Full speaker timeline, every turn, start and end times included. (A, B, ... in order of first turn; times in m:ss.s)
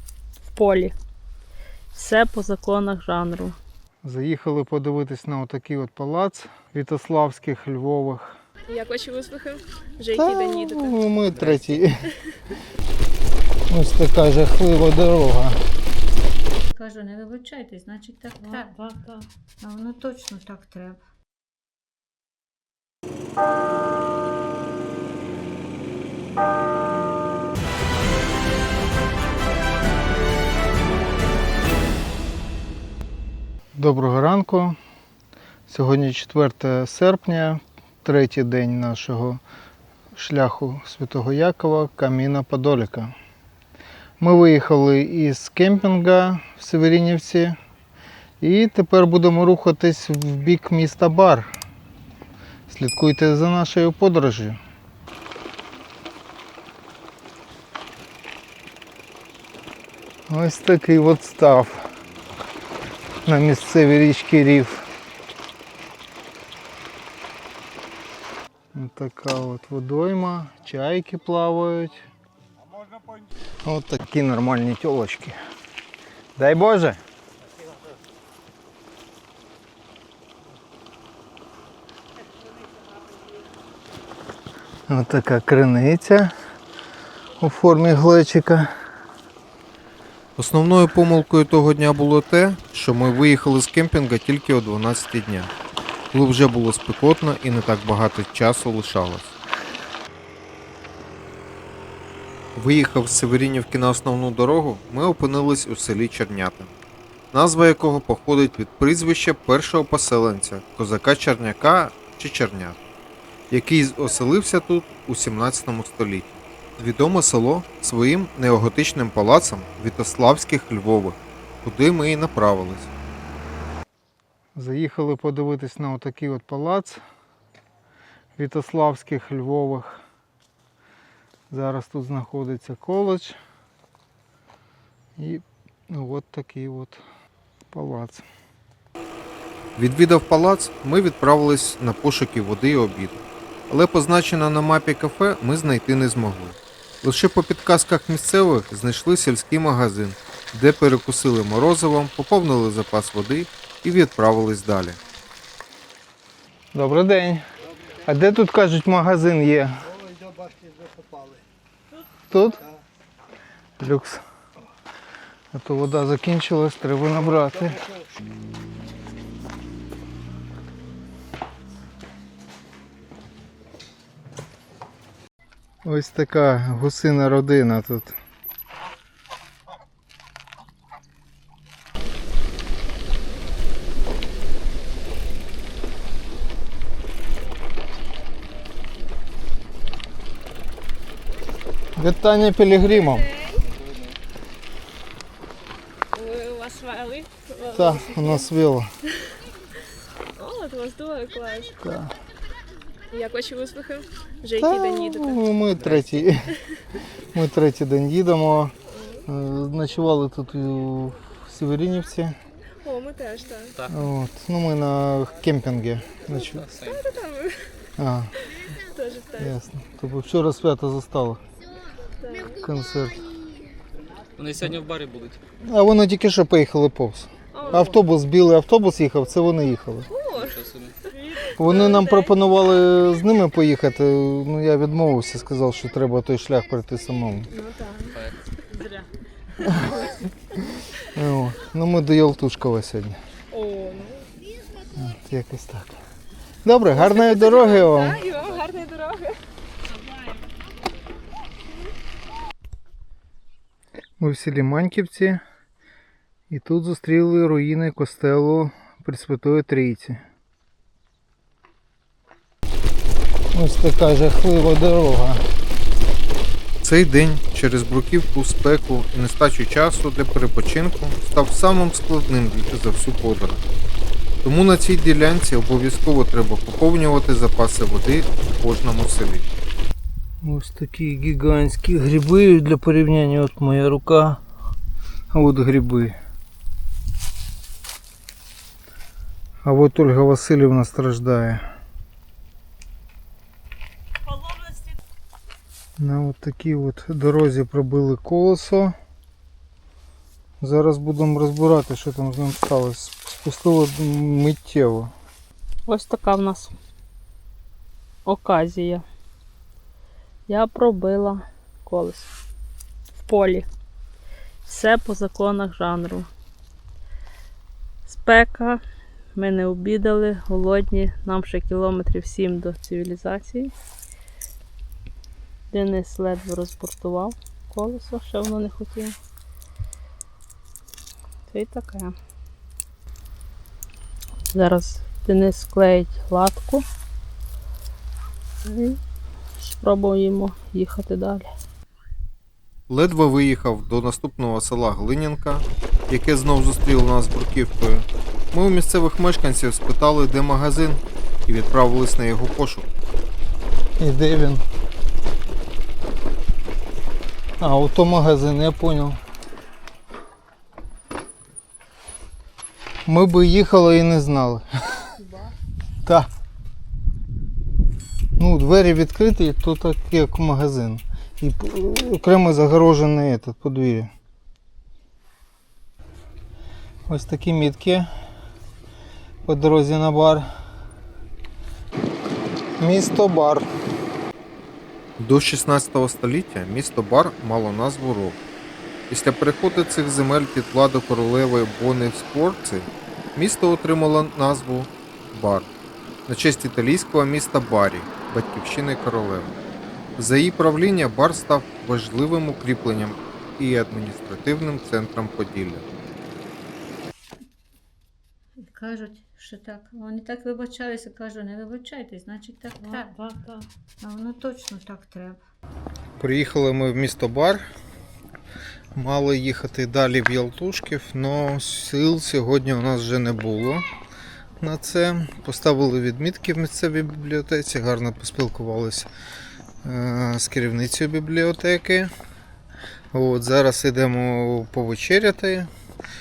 0:00.5-0:00.9 A
0:01.9-0:03.6 A
0:04.0-0:08.4 B
0:08.7-0:10.9 C
0:10.1-0:12.0 B
0:13.7-0:15.6 B
0:16.7-0:19.1 D
0:19.6-0:21.0 D
0:33.8-0:34.8 B
0:35.7-0:39.4 B
0:40.1-0:43.1 B
0:44.2-0:47.6 B
0:48.4-0:51.5 B
0:52.7-0:54.6 B
1:00.3-1:01.8 B
1:03.2-1:04.9 B
1:08.7-1:12.0 B
1:13.6-1:15.4 B
1:16.4-1:17.0 B
1:24.9-1:26.3 B
1:27.4-1:28.7 B
1:30.4-1:35.5 E
1:36.1-1:39.3 E
1:42.6-1:46.8 E
1:47.3-1:52.8 E
1:53.5-2:02.9 E
2:04.6-2:07.0 B
2:08.4-2:10.0 B
2:11.5-2:13.4 B
2:15.2-2:17.0 B
2:17.7-2:18.2 B
2:19.8-2:35.0 E
2:36.7-2:37.4 B
2:38.0-2:39.9 B
2:42.3-2:42.7 B
2:43.8-2:44.2 B
2:45.5-2:47.9 B
2:55.8-2:58.2 B
3:12.0-3:13.3 B
3:13.0-3:13.6 C
3:16.1-3:18.2 C
3:17.7-3:18.9 B
3:20.4-3:21.7 C
3:21.8-3:22.1 B
3:23.1-3:25.4 C
3:24.6-3:26.5 B
3:27.3-3:28.7 B
3:29.0-3:29.2 C
3:29.3-3:32.4 B
3:32.8-3:33.8 C
3:33.9-3:36.7 B
3:36.5-3:37.0 F
3:36.9-3:37.8 C
3:38.0-3:38.3 B
3:38.9-3:39.5 C
3:39.4-3:41.4 B
3:42.2-3:42.6 C
3:42.6-3:43.3 B
3:44.4-3:45.4 F
3:45.6-3:50.1 B
3:47.5-3:47.9 C
3:50.1-3:50.6 C
3:50.3-3:51.0 F
3:51.1-3:52.2 C
3:51.6-3:57.5 B
3:57.6-3:58.2 C
4:01.1-4:03.2 B
4:03.5-4:04.3 C
4:05.0-4:06.0 B
4:06.6-4:08.2 B
4:07.0-4:09.4 C
4:14.2-4:15.4 B
4:16.5-4:20.2 B
4:23.5-4:25.4 B
4:26.8-4:33.6 E
4:34.4-4:39.5 E
4:40.4-4:44.4 B
4:45.3-4:46.2 B
4:49.6-4:51.6 B
4:56.0-4:58.9 B
5:00.6-5:05.1 B
5:05.9-5:06.8 A
5:08.2-5:09.0 A
5:10.5-5:12.3 A
5:13.2-5:13.7 A
5:14.6-5:16.3 A
5:18.1-5:18.8 A
5:19.4-5:23.7 A
5:25.7-5:29.2 A
5:31.5-5:32.2 A
5:34.5-5:36.8 A
5:38.6-5:39.0 A
5:39.6-5:41.5 A
5:42.9-5:52.9 E
5:54.0-5:54.6 B
5:57.6-5:59.2 B
6:03.1-6:05.1 B
6:08.4-6:14.1 B
6:17.1-6:18.1 B
6:19.4-6:20.5 B
6:22.8-6:23.7 B
6:25.2-6:28.4 E
6:29.1-6:35.7 E
6:36.3-6:39.6 E
6:40.2-6:45.8 E
6:48.6-6:53.2 D
6:54.0-6:55.4 D
6:56.2-6:57.6 B
6:59.0-7:03.8 B
7:04.6-7:09.1 B
7:09.8-7:12.1 B
7:13.1-7:15.7 B